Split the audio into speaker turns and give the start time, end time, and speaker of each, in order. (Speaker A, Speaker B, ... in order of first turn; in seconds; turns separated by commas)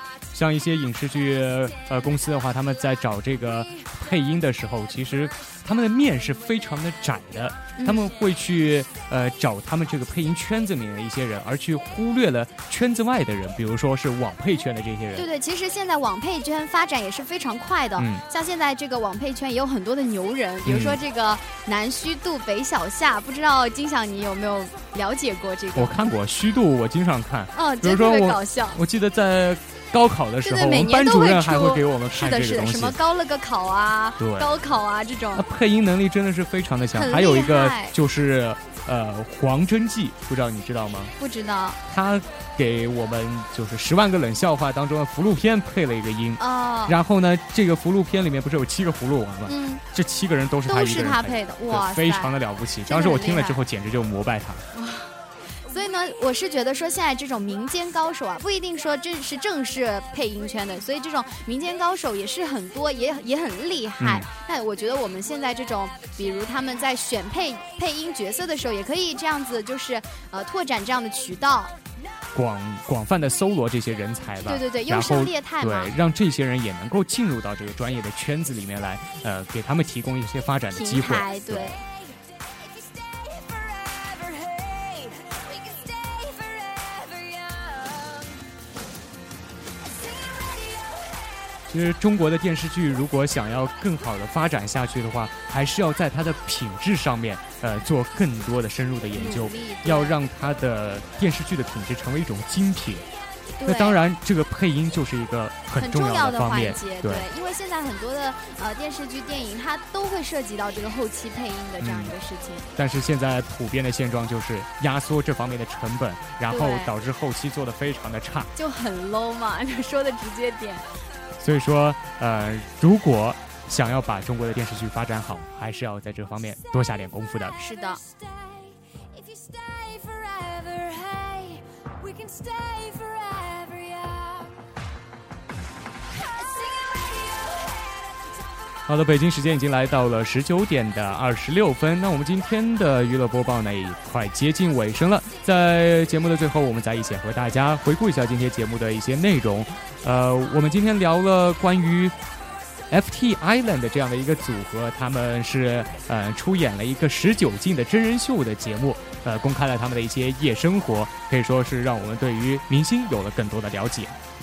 Speaker A: 0.3-15.3, Speaker B: 7.8-8.1, Speaker B: 15.2-26.0, Speaker A: 18.0-18.2, Speaker A: 20.6-21.0, Speaker A: 25.8-33.0, Speaker B: 27.6-28.8, Speaker B: 30.4-35.4, Speaker A: 34.2-34.6, Speaker A: 35.3-41.1, Speaker B: 36.9-38.0, Speaker B: 41.2-41.8, Speaker A: 41.9-54.6, Speaker B: 46.4-47.0, Speaker B: 49.5-49.8, Speaker B: 50.7-52.3, Speaker B: 52.9-53.6, Speaker B: 54.8-55.1, Speaker B: 55.7-71.7, Speaker A: 64.0-64.3, Speaker A: 72.3-81.7, Speaker B: 74.4-75.9, Speaker B: 80.7-81.8, Speaker C: 82.1-88.4, Speaker C: 90.6-90.9, Speaker A: 91.7-103.0, Speaker B: 99.1-100.2, Speaker B: 103.6-104.0, Speaker A: 103.7-107.3, Speaker B: 105.8-112.7, Speaker A: 111.8-112.2, Speaker A: 112.8-118.5, Speaker B: 116.5-116.9, Speaker B: 118.6-120.9, Speaker A: 121.4-127.5, Speaker C: 127.5-134.5, Speaker B: 127.6-128.0, Speaker C: 136.2-138.8, Speaker A: 138.9-152.2, Speaker A: 152.9-164.2